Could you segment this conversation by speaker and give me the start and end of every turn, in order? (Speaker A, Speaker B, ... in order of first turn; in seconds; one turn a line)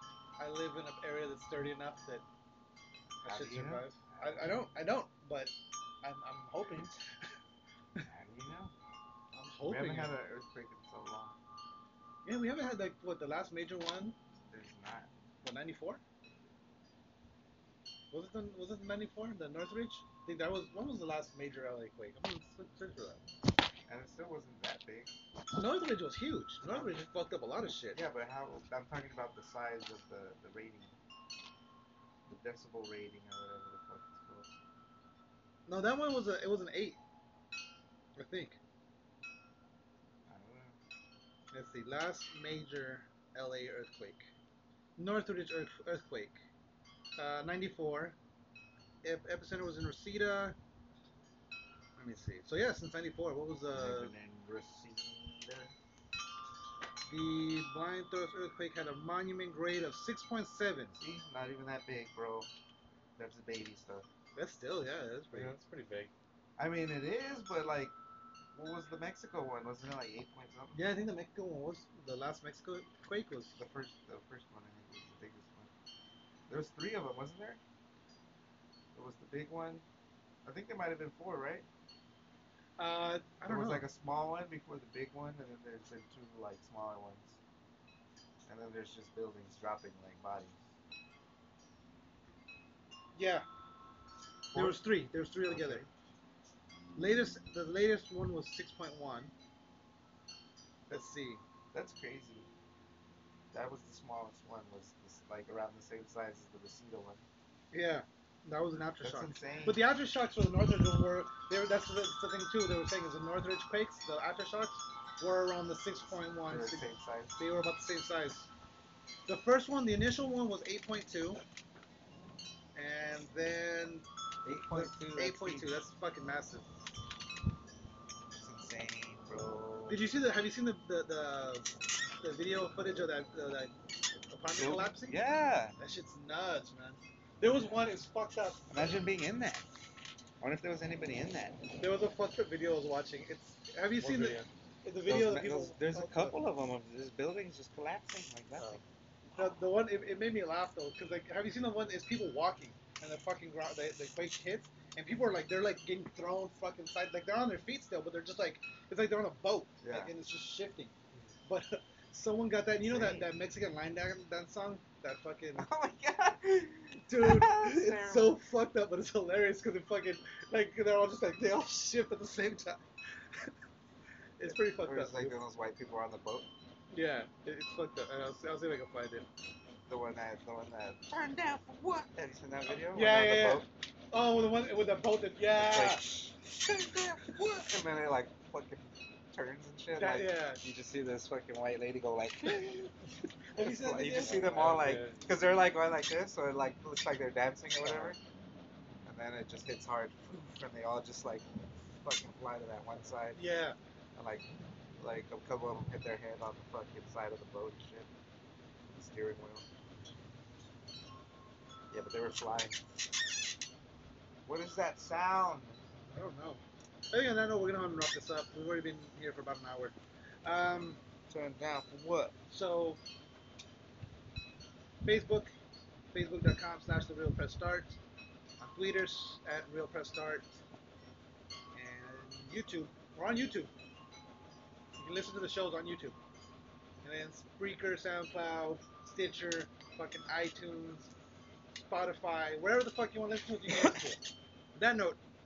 Speaker A: 0.4-2.2
Speaker B: 3.2-4.5
Speaker A: 3.2-7.3
Speaker B: 8.0-8.7
Speaker A: 9.3-10.1
Speaker B: 9.6-11.4
Speaker A: 12.2-14.2
Speaker B: 14.5-15.1
Speaker A: 15.4-16.0
Speaker A: 18.1-23.2
Speaker B: 23.9-25.2
Speaker A: 25.5-28.0
Speaker B: 26.6-27.0
Speaker B: 27.9-30.9
Speaker B: 32.2-34.5
Speaker A: 35.7-37.0
Speaker A: 38.1-38.6
Speaker B: 40.3-40.8
Speaker A: 41.5-44.3
Speaker A: 45.0-46.4
Speaker A: 47.2-48.2
Speaker A: 49.0-50.5
Speaker A: 52.0-54.1
Speaker B: 53.7-55.7
Speaker A: 57.1-61.0
Speaker B: 61.0-62.5
Speaker B: 63.2-64.0
Speaker A: 64.3-65.5
Speaker C: 65.3-66.1
Speaker B: 66.6-67.9
Speaker B: 68.5-70.8
Speaker A: 70.7-73.6
Speaker B: 73.5-75.7
Speaker B: 76.5-77.6
Speaker B: 78.9-79.8
Speaker B: 80.4-81.7
Speaker A: 82.8-83.8
Speaker B: 83.5-87.4
Speaker B: 88.5-90.7
Speaker A: 93.1-93.5
Speaker B: 94.5-94.9
Speaker A: 94.5-95.8
Speaker B: 95.4-95.9
Speaker A: 97.0-99.3
Speaker A: 100.9-101.4
Speaker B: 101.7-102.5
Speaker B: 103.5-107.2
Speaker A: 107.7-118.5
Speaker B: 109.0-109.8
Speaker B: 116.0-117.4
Speaker A: 119.3-121.4
Speaker A: 122.7-124.0
Speaker B: 124.4-125.8
Speaker A: 124.7-126.7
Speaker B: 128.3-130.1
Speaker A: 129.9-131.7
Speaker A: 132.2-133.7
Speaker A: 134.3-135.2
Speaker B: 134.5-135.8
Speaker A: 135.8-138.7
Speaker B: 138.7-139.7
Speaker B: 140.4-141.6
Speaker A: 141.8-146.3
Speaker C: 144.0-144.5
Speaker B: 145.1-148.8
Speaker A: 149.3-160.9
Speaker B: 159.8-160.1
Speaker A: 161.5-165.7
Speaker B: 162.8-163.3
Speaker B: 165.5-168.4
Speaker A: 167.1-173.5
Speaker A: 174.4-175.4
Speaker B: 174.4-176.5
Speaker A: 176.9-179.3
Speaker B: 179.9-183.7
Speaker A: 182.9-186.1
Speaker B: 185.5-192.9
Speaker A: 189.9-190.6
Speaker A: 192.5-192.8
Speaker A: 193.5-194.9
Speaker B: 193.5-198.2
Speaker C: 194.1-195.3
Speaker A: 197.8-198.1
Speaker B: 199.0-203.4
Speaker A: 203.3-203.8
Speaker B: 204.2-204.5
Speaker B: 205.0-208.1
Speaker B: 208.9-209.6
Speaker B: 211.9-212.8
Speaker B: 214.4-215.8
Speaker A: 216.1-221.0
Speaker B: 221.3-222.3
Speaker A: 222.5-223.0
Speaker A: 225.0-225.5
Speaker A: 226.1-228.0
Speaker A: 228.6-230.6
Speaker A: 231.7-233.7
Speaker A: 235.0-236.2
Speaker A: 237.0-241.1
Speaker A: 241.8-244.2
Speaker A: 244.7-245.2